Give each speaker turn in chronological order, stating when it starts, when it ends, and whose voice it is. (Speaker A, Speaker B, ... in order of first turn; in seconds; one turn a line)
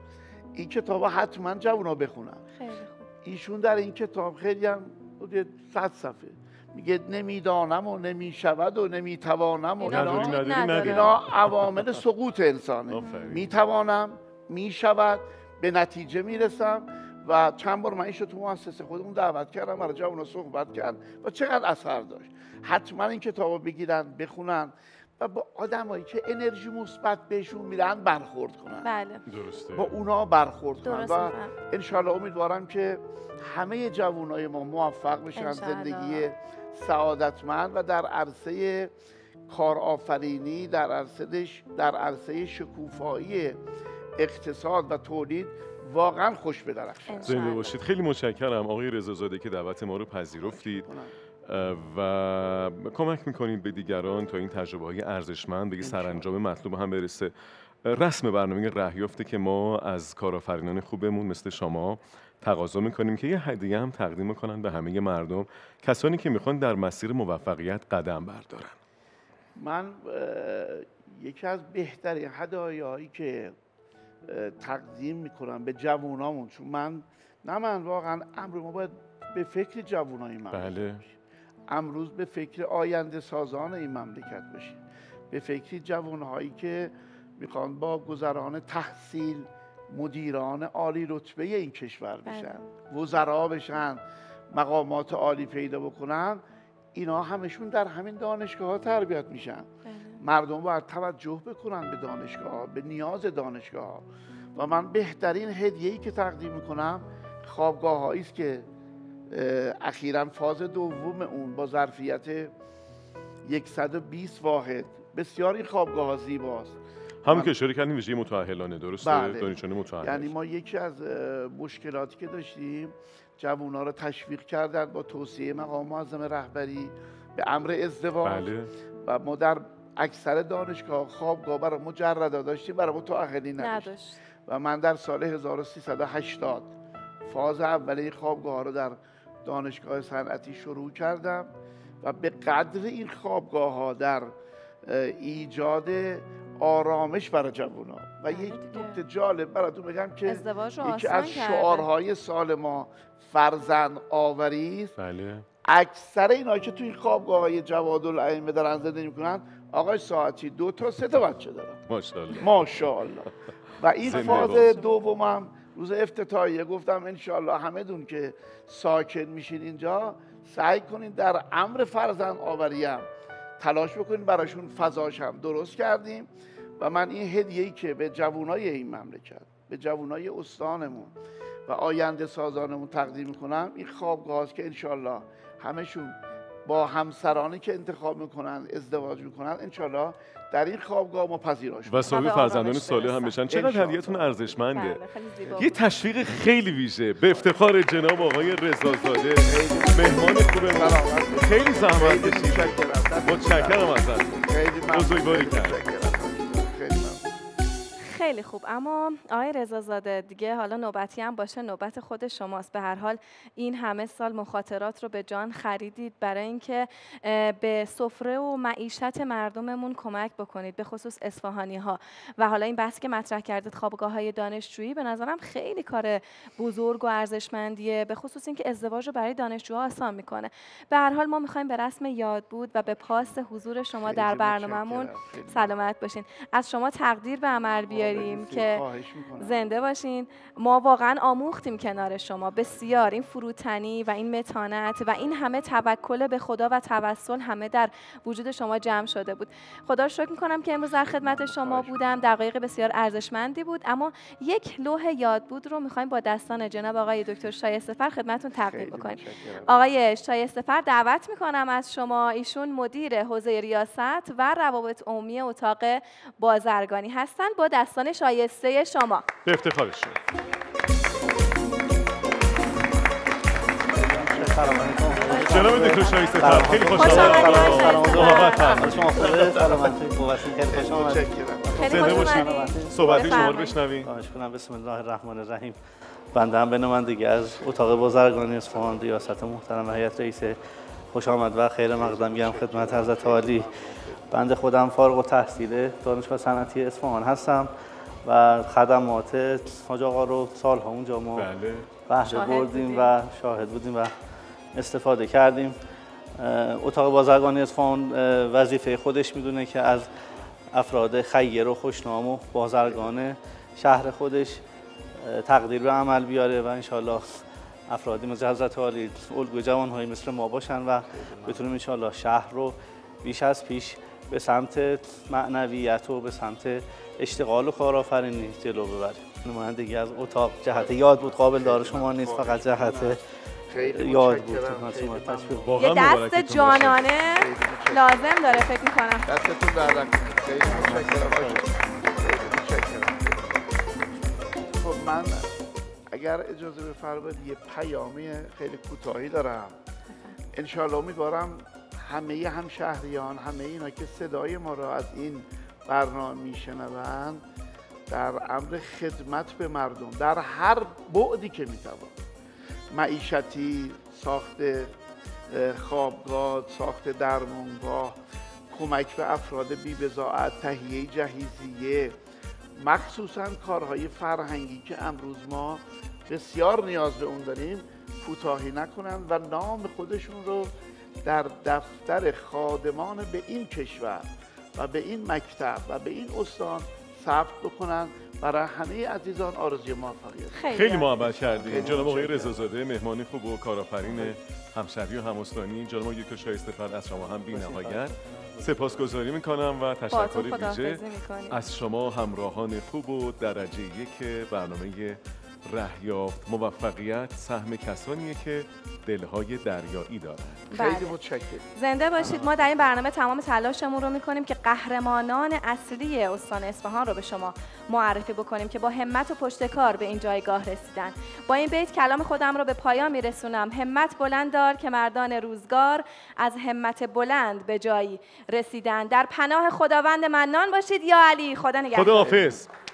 Speaker A: 0.5-2.5
Speaker B: 2.5-3.1
Speaker A: 3.2-28.9
Speaker B: 9.8-11.1
Speaker C: 9.9-11.8
Speaker C: 12.9-13.5
Speaker B: 28.8-29.2
Speaker C: 29.3-29.9
Speaker A: 29.7-38.9
Speaker B: 30.8-31.5
Speaker B: 35.4-36.3
Speaker A: 39.5-43.6
Speaker A: 44.2-47.6
Speaker B: 47.1-47.8
Speaker C: 47.2-50.9
Speaker A: 50.3-51.1
Speaker C: 51.4-57.3
Speaker A: 55.8-56.3
Speaker C: 57.8-68.8
Speaker A: 69.5-73.5
Speaker A: 74.2-81.2
Speaker C: 80.5-81.0
Speaker A: 81.7-96.4
Speaker B: 92.3-92.7
Speaker A: 96.9-108.7
Speaker B: 99.8-100.2
Speaker A: 109.3-112.5
Speaker A: 113.4-117.5
Speaker C: 117.2-120.3
Speaker A: 119.0-128.5
Speaker C: 128.2-128.7
Speaker A: 129.0-133.9
Speaker B: 133.6-134.2
Speaker A: 134.4-136.7
Speaker A: 137.2-154.9
Speaker B: 148.3-149.0
Speaker B: 150.2-151.9
Speaker C: 155.0-155.4
Speaker A: 155.6-161.8
Speaker C: 161.9-162.9
Speaker A: 162.4-173.1
Speaker C: 164.0-164.8
Speaker B: 164.1-164.9
Speaker A: 173.6-181.1
Speaker A: 181.7-192.3
Speaker C: 191.9-195.0
Speaker B: 192.1-193.3
Speaker A: 193.5-194.5
Speaker B: 194.7-195.7
Speaker A: 195.4-195.7
Speaker C: 195.6-204.4
Speaker A: 199.4-207.3
Speaker C: 204.9-205.8
Speaker B: 208.0-238.8
Speaker A: 234.0-235.7
Speaker A: 237.9-239.6
Speaker B: 239.4-269.2
Speaker A: 251.2-252.0
Speaker A: 258.6-259.7
Speaker C: 269.4-270.2
Speaker A: 273.9-275.6
Speaker D: 274.1-285.8
Speaker B: 275.3-279.0
Speaker C: 275.5-279.5
Speaker A: 279.2-279.7
Speaker A: 280.7-282.1
Speaker B: 281.8-283.8
Speaker C: 281.9-284.1
Speaker D: 286.3-290.6
Speaker D: 291.1-293.7
Speaker A: 291.8-294.2
Speaker D: 294.3-297.7
Speaker D: 298.2-301.5
Speaker C: 301.4-301.9
Speaker D: 302.1-304.1
Speaker B: 302.2-303.1
Speaker D: 304.7-305.8
Speaker D: 306.4-310.1
Speaker D: 310.7-314.6
Speaker D: 315.2-333.2
Speaker A: 321.1-321.6
Speaker A: 330.7-335.7
Speaker D: 333.8-335.7
Speaker C: 335.6-337.1
Speaker B: 335.8-339.3
Speaker A: 337.2-338.7
Speaker A: 339.3-343.6
Speaker B: 340.8-341.0
Speaker A: 344.7-345.5
Speaker A: 346.1-349.8
Speaker B: 350.1-350.4
Speaker A: 350.5-357.4
Speaker A: 358.1-362.2
Speaker A: 362.9-364.9
Speaker A: 365.5-368.2
Speaker A: 368.7-372.2
Speaker A: 372.8-380.7
Speaker A: 381.2-392.7
Speaker B: 390.5-391.1
Speaker C: 390.7-410.7
Speaker D: 397.5-397.9
Speaker B: 400.1-401.6
Speaker A: 410.7-412.7
Speaker B: 410.7-411.1
Speaker B: 411.7-432.4
Speaker C: 431.9-432.7
Speaker A: 432.2-432.5